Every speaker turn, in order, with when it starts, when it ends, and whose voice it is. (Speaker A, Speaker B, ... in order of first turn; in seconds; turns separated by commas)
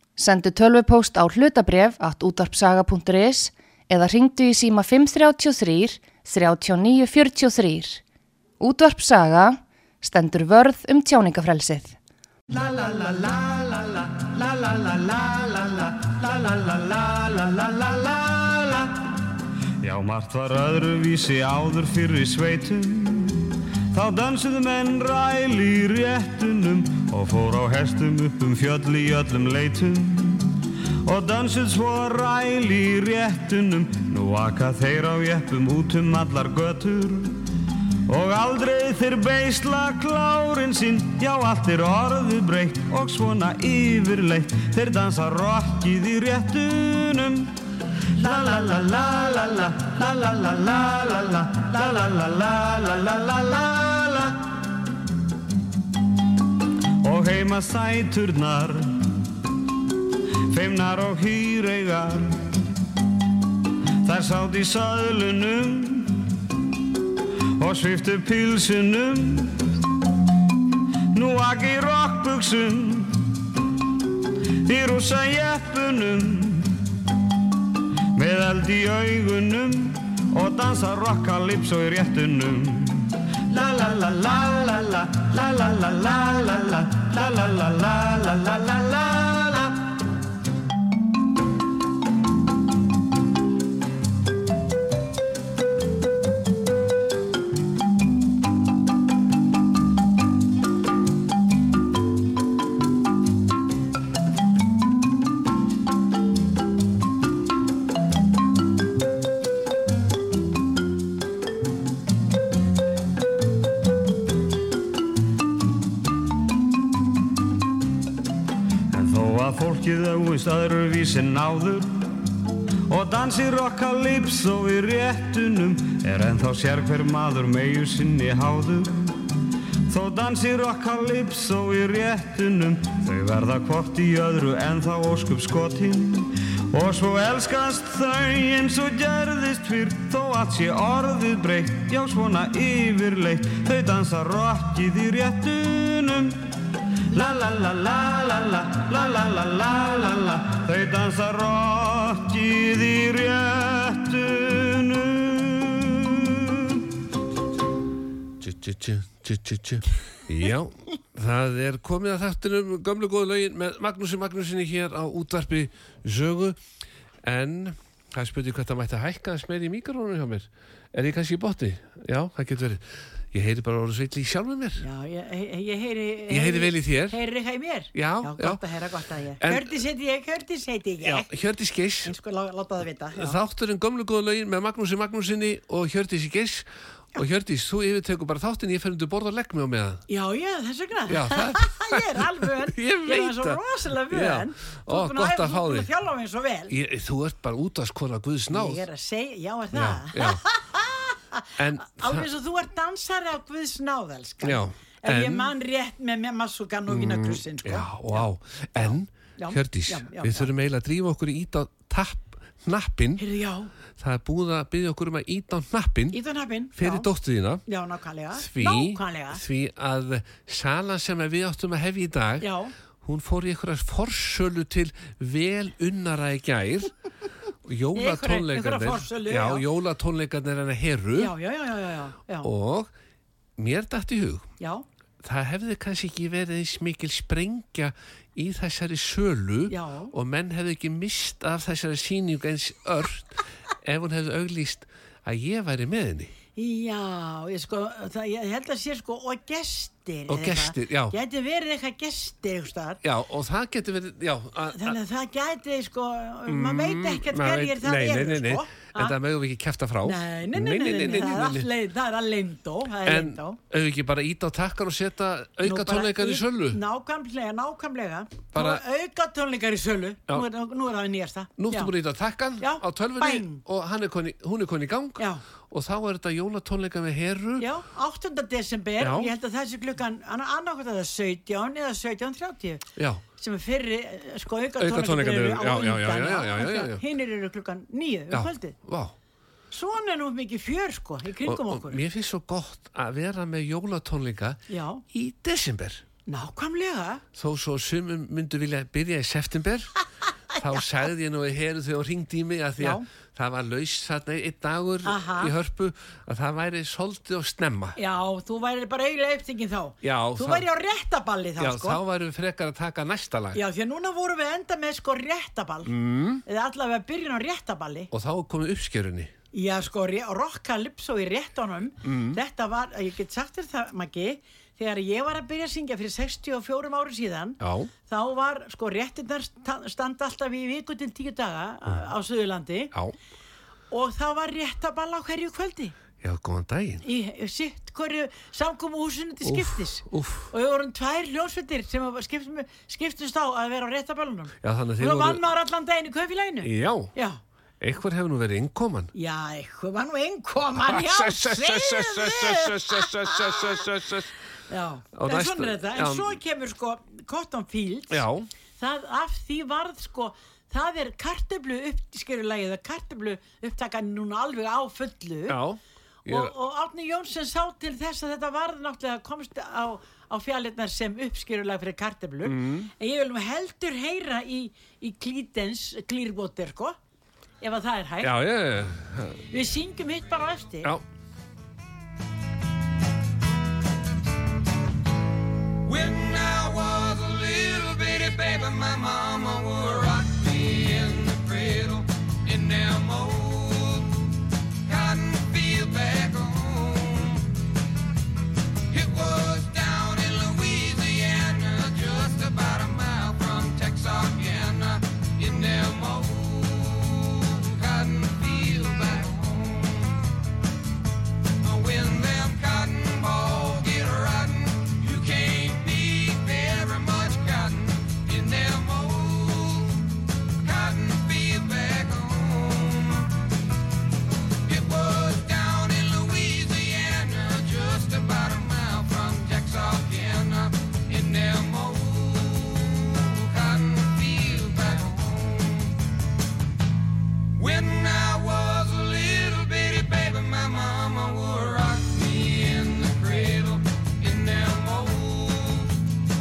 Speaker A: 0.2-8.0, Speaker A: 8.6-11.9, Speaker B: 12.5-19.0, Speaker B: 19.8-37.5, Speaker B: 38.1-47.5, Speaker B: 48.1-54.4, Speaker B: 57.0-59.0, Speaker B: 60.5-62.4, Speaker B: 64.0-66.3, Speaker B: 67.6-69.7, Speaker B: 71.1-73.3, Speaker B: 74.6-76.8, Speaker B: 78.1-89.8, Speaker B: 118.9-122.0, Speaker B: 122.9-129.3, Speaker B: 129.9-146.4, Speaker B: 147.1-156.8, Speaker C: 158.4-166.6, Speaker C: 167.2-174.8, Speaker D: 174.8-181.3, Speaker C: 176.3-177.2, Speaker C: 177.9-178.6, Speaker C: 179.4-179.7, Speaker C: 181.0-182.1, Speaker D: 182.0-183.4, Speaker C: 183.2-190.0, Speaker D: 190.1-196.7, Speaker C: 191.1-192.0, Speaker C: 192.7-195.9, Speaker C: 196.7-198.8, Speaker D: 198.5-210.5, Speaker C: 199.7-200.4, Speaker C: 201.6-202.3, Speaker C: 204.4-205.5, Speaker C: 206.9-213.2, Speaker D: 213.2-213.7, Speaker C: 214.0-216.2, Speaker D: 216.1-217.1, Speaker C: 216.8-217.6, Speaker D: 217.7-219.4, Speaker C: 218.3-222.5, Speaker D: 222.4-222.7, Speaker C: 223.0-226.9, Speaker C: 227.7-231.3, Speaker D: 227.9-229.6, Speaker D: 231.2-232.5, Speaker C: 232.4-232.9, Speaker C: 233.6-234.5, Speaker D: 234.6-234.8, Speaker C: 235.2-246.3, Speaker D: 239.7-240.1, Speaker D: 246.6-253.0, Speaker C: 250.3-251.1, Speaker C: 253.0-255.0, Speaker D: 254.8-259.1, Speaker C: 256.5-261.7, Speaker D: 260.0-263.6, Speaker C: 263.1-266.8, Speaker D: 265.6-271.9, Speaker C: 268.5-268.8, Speaker C: 271.6-277.7, Speaker D: 272.6-273.6, Speaker D: 275.2-275.4, Speaker D: 277.6-282.8, Speaker C: 279.0-279.3, Speaker C: 283.0-283.2, Speaker D: 283.4-288.8, Speaker C: 284.8-287.0, Speaker C: 288.3-289.1, Speaker D: 289.7-292.0, Speaker C: 291.4-296.0, Speaker D: 294.7-295.0, Speaker D: 296.3-297.2, Speaker C: 297.4-300.0, Speaker C: 300.6-308.0, Speaker D: 302.8-303.1, Speaker D: 305.1-305.5, Speaker D: 308.0-312.0, Speaker C: 310.0-310.6, Speaker C: 311.6-313.6, Speaker D: 313.5-318.1, Speaker C: 315.9-316.4, Speaker C: 318.1-319.3, Speaker D: 319.5-332.9, Speaker C: 322.0-322.4, Speaker C: 327.6-327.9, Speaker D: 333.9-335.9, Speaker C: 336.2-337.0, Speaker D: 337.0-347.4, Speaker C: 339.4-340.5, Speaker C: 344.6-345.4, Speaker C: 346.6-347.1, Speaker C: 347.8-349.1, Speaker D: 349.1-353.9, Speaker C: 350.8-354.3, Speaker D: 354.7-358.2, Speaker C: 355.1-356.3, Speaker C: 358.1-358.5, Speaker D: 358.8-365.6, Speaker C: 365.5-366.5, Speaker D: 366.2-377.0, Speaker C: 372.4-372.9, Speaker D: 377.6-378.3, Speaker C: 378.2-379.4, Speaker D: 379.5-380.9, Speaker E: 385.8-394.3, Speaker E: 394.9-397.5, Speaker E: 398.9-410.2, Speaker E: 411.6-420.0, Speaker E: 420.6-423.3, Speaker E: 424.6-435.9, Speaker E: 437.5-445.9